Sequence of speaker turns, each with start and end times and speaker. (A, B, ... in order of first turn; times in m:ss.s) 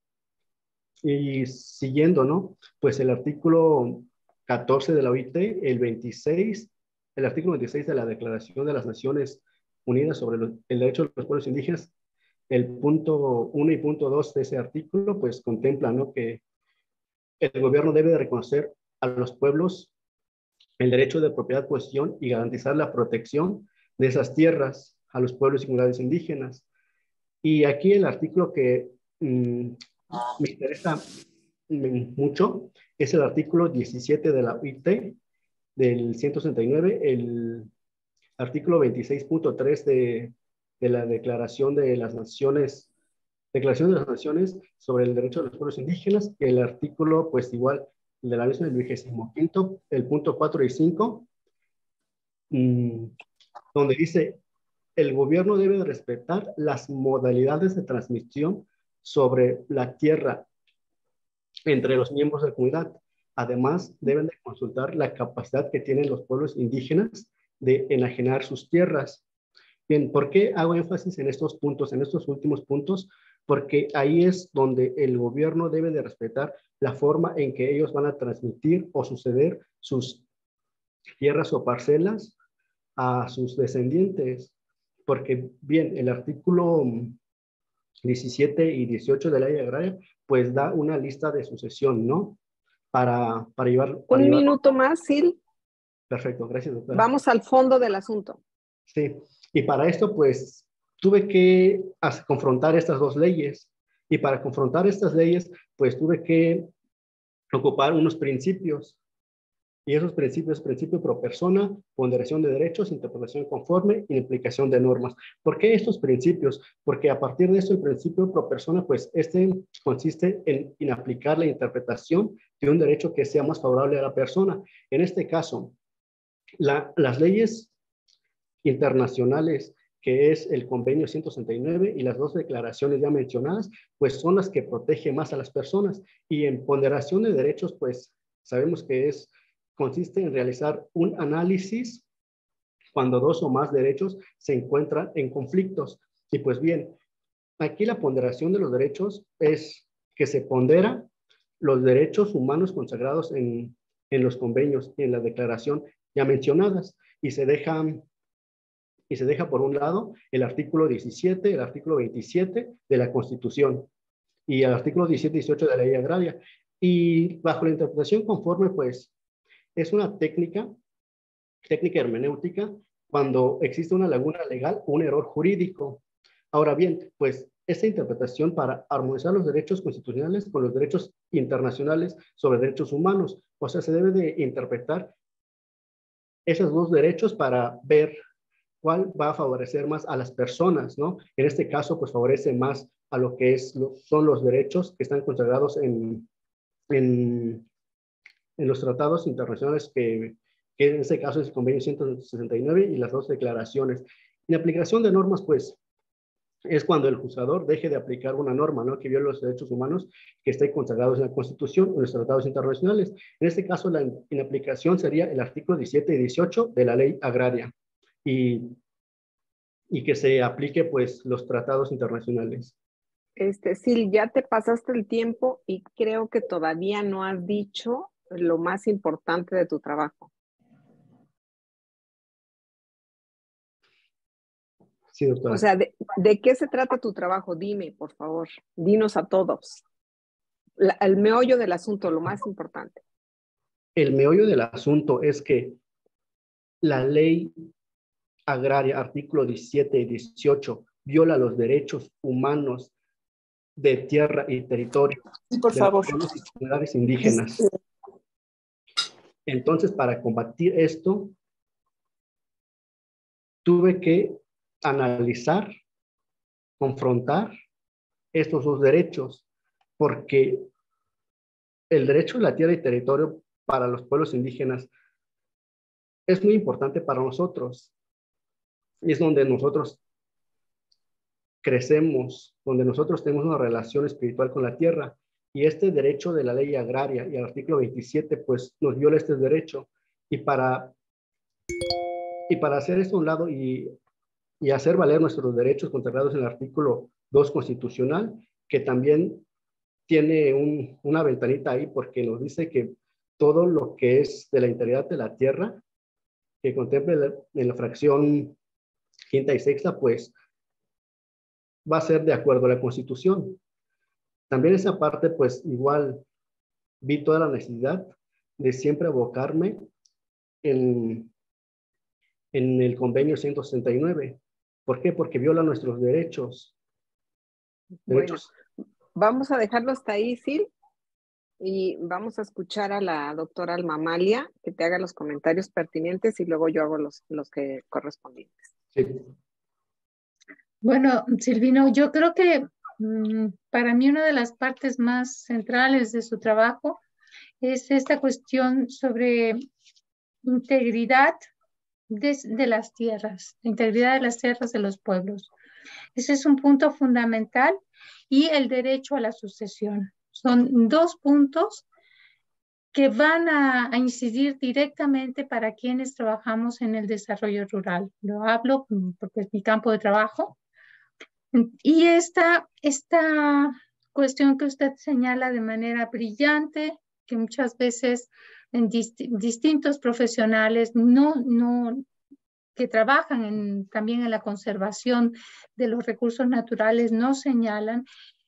0:01.0-0:11.9 A
0:12.5-0:16.4 A
0:17.4-0:19.9 A
0:20.8-0:26.6 A
0:27.4-0:31.0 A
0:31.7-0:35.2 A
0:35.8-0:37.7 A
0:38.4-0:42.9 A
0:43.5-0:51.3 A
0:52.5-0:53.1 A
0:53.7-0:54.4 A
0:55.0-1:00.5 A
1:01.6-1:09.2 A
1:09.9-1:20.2 A
1:21.2-1:22.3 A
1:23.0-1:24.5 A
1:25.1-1:27.2 A
1:28.0-1:32.4 A
1:32.9-1:34.5 A
1:34.1-1:35.4 B
1:36.1-1:37.1 A
1:36.9-1:38.4 B
1:38.9-1:46.7 A
1:47.5-1:49.0 A
1:49.8-2:05.7 A
2:06.6-2:07.7 A
2:08.6-2:22.0 A
2:22.9-2:27.0 A
2:27.6-2:31.1 A
2:31.6-2:38.0 A
2:39.1-2:43.9 A
2:44.5-2:49.1 A
2:49.8-2:50.7 A
2:51.6-3:05.1 A
3:06.4-3:08.2 A
3:08.8-3:16.3 A
3:16.9-3:17.7 A
3:18.6-3:25.8 A
3:26.7-3:37.7 A
3:38.2-3:38.8 A
3:39.9-3:42.7 A
3:43.4-3:50.3 B
3:55.1-3:55.6 A
3:55.5-3:59.8 B
4:00.8-4:03.0 B
4:04.0-4:05.8 A
4:06.8-4:07.5 A
4:08.5-4:12.9 A
4:13.8-4:17.7 A
4:19.4-4:21.4 A
4:23.6-4:25.7 A
4:26.8-4:27.5 A
4:28.3-4:29.4 A
4:30.0-4:30.7 A
4:31.9-4:34.9 A
4:36.3-4:37.9 A
4:39.0-4:40.0 A
4:41.6-4:50.9 A
4:52.5-4:53.9 A
4:54.6-4:59.4 A
5:00.1-5:05.8 A
5:06.6-5:08.6 A
5:09.3-5:10.3 A
5:11.8-5:13.6 A
5:14.5-5:16.2 A
5:17.0-5:19.9 A
5:20.6-5:21.3 A
5:22.5-5:26.7 A
5:28.1-5:28.4 B
5:28.1-5:28.5 A
5:29.2-5:30.7 B
5:31.6-5:38.7 B
5:39.0-5:39.2 A
5:40.8-5:47.0 C
5:47.6-5:49.6 C
5:50.4-5:51.4 C
5:52.1-5:55.5 C
5:56.1-5:57.8 C
5:58.3-6:01.8 C
6:02.9-6:10.6 C
6:11.5-6:22.1 C
6:22.8-6:28.1 C